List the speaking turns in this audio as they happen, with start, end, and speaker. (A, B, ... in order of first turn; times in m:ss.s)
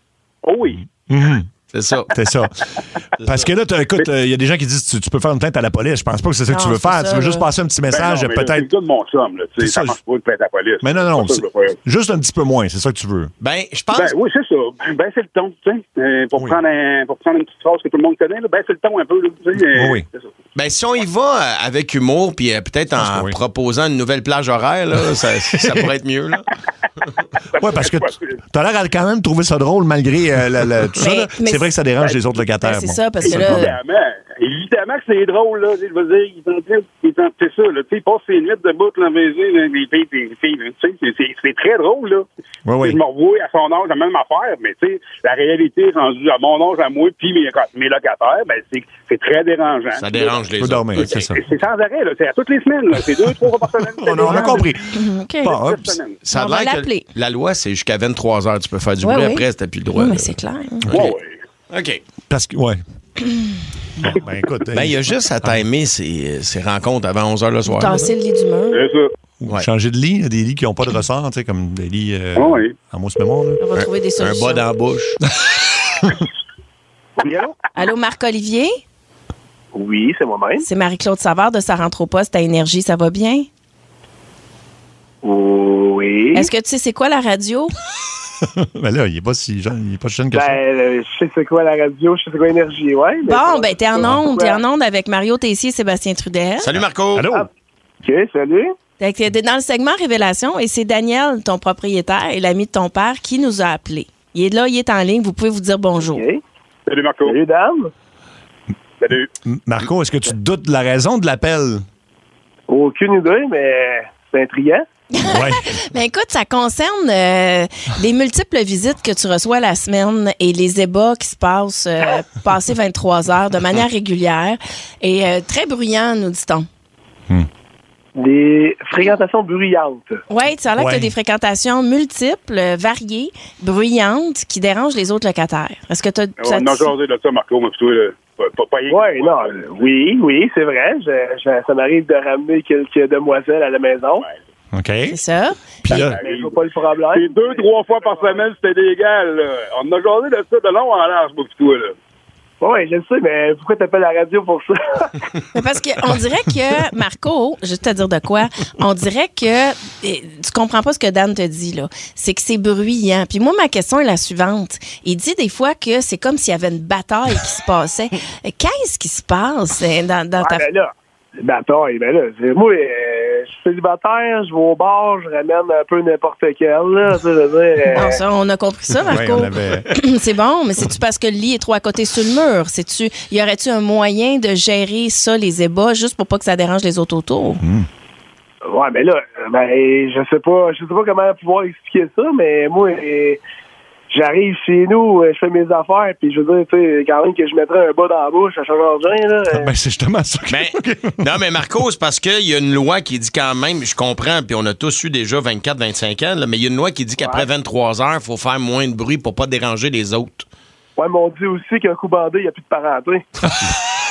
0:00.4-0:00.8 A
0:01.1-0:01.5 B
0:01.7-0:02.1 C
0:02.1-0:08.7 B
0:03.2-0:03.5 C
0:06.5-0:07.4 D
0:07.9-0:11.8 A
0:09.6-0:10.0 B
0:10.8-0:13.3 B
0:13.4-0:14.1 C
0:13.9-0:20.2 A
0:19.7-0:20.0 B
0:20.5-0:26.5 C
0:23.0-0:23.3 B
0:25.5-0:25.9 B
0:27.5-0:28.2 A
0:27.5-0:33.8 B
0:31.0-0:33.7 D
0:33.2-0:42.3 A
0:42.6-0:43.0 B
0:42.8-0:50.4 A
0:49.9-0:51.1 C
0:50.6-0:51.4 B
0:51.0-0:56.2 A
0:54.0-0:56.0 B
0:54.2-0:55.5 D
0:56.2-1:01.2 C
0:56.3-0:57.0 D
0:59.0-1:00.9 D
1:00.9-1:01.3 A
1:01.7-1:02.0 C
1:02.3-1:02.8 B
1:04.0-1:05.6 B
1:04.7-1:08.1 C
1:07.7-1:08.8 D
1:08.7-1:09.1 A
1:09.4-1:13.6 B
1:12.4-1:12.7 A
1:13.6-1:14.6 D
1:13.8-1:15.2 C
1:15.4-1:16.2 B
1:17.2-1:17.5 E
1:17.7-1:18.7 D
1:19.7-1:20.6 E
1:20.6-1:23.5 D
1:25.2-1:26.5 E
1:26.3-1:27.7 D
1:28.4-1:30.6 B
1:30.3-1:34.6 E
1:33.2-1:36.7 D
1:36.6-1:37.2 C
1:37.1-1:37.5 B
1:38.0-1:38.7 E
1:39.0-1:46.2 D
1:46.0-1:46.4 E
1:46.9-1:47.4 A
1:47.2-1:47.9 E
1:49.0-1:49.3 A
1:49.4-1:51.8 B
1:52.7-1:54.8 E
1:55.1-2:06.6 D
1:55.2-1:55.6 B
2:08.2-2:10.2 E
2:10.3-2:16.9 D
2:10.8-2:11.1 B
2:16.4-2:19.8 A
2:18.9-2:24.2 E
2:24.7-2:25.2 B
2:25.1-2:26.1 D
2:25.8-2:26.2 B
2:25.9-2:26.5 A
2:26.1-2:28.4 E
2:27.1-2:31.9 A
2:32.6-2:35.2 E
2:35.5-2:50.6 D
2:50.4-2:58.2 E
2:57.9-3:07.6 D
2:59.1-2:59.9 B
3:07.6-3:07.9 B
3:08.6-3:13.4 E
3:14.1-3:19.7 E
3:19.5-3:21.3 B
3:20.5-3:30.4 C
3:27.2-3:27.5 E
3:31.0-3:33.2 E
3:33.5-3:33.8 B